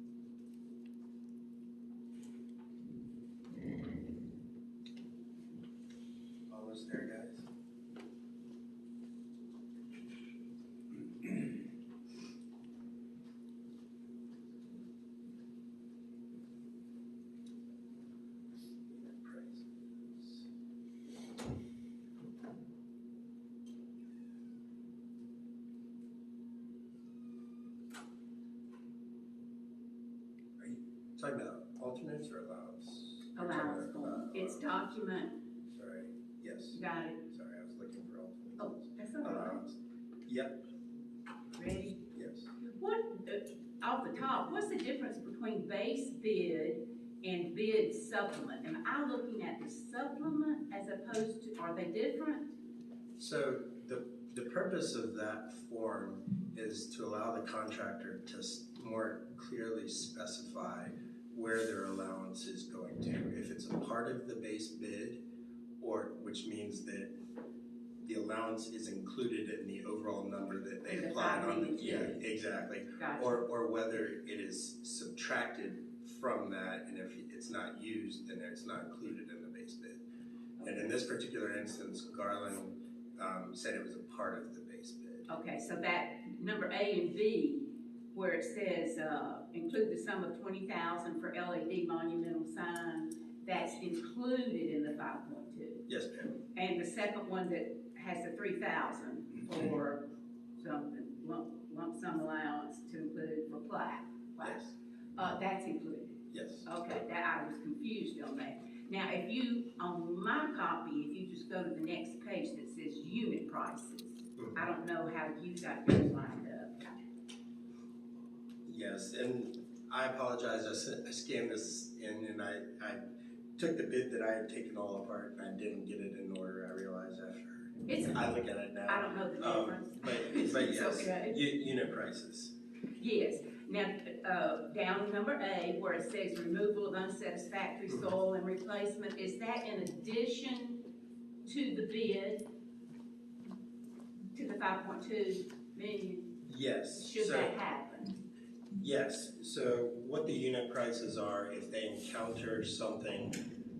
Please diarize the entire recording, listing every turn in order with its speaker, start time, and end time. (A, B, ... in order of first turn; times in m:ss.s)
0:06.5-0:07.5 A
0:18.9-0:20.4 A
0:30.6-0:34.7 A
0:33.4-0:35.3 B
0:35.7-0:40.6 A
0:36.7-0:37.2 B
0:38.6-0:39.6 B
0:41.5-0:42.0 B
0:42.1-0:42.5 A
0:42.6-0:52.6 B
0:53.2-1:05.2 A
1:05.8-1:07.1 A
1:08.0-1:20.0 A
1:10.8-1:12.2 B
1:13.0-1:13.4 B
1:20.6-1:20.9 B
1:20.6-1:25.3 A
1:25.3-1:35.8 B
1:35.9-1:36.4 A
1:36.5-1:40.0 B
1:40.6-1:44.6 B
1:44.4-1:44.8 A
1:45.2-1:57.0 B
1:46.3-1:47.0 A
1:58.6-2:03.0 A
2:03.6-2:12.5 A
2:07.9-2:08.2 B
2:08.9-2:11.4 B
2:13.0-2:20.8 B
2:21.4-2:22.4 B
2:24.3-2:26.3 B
2:26.5-2:27.6 A
2:27.0-2:28.2 B
2:28.8-2:33.4 A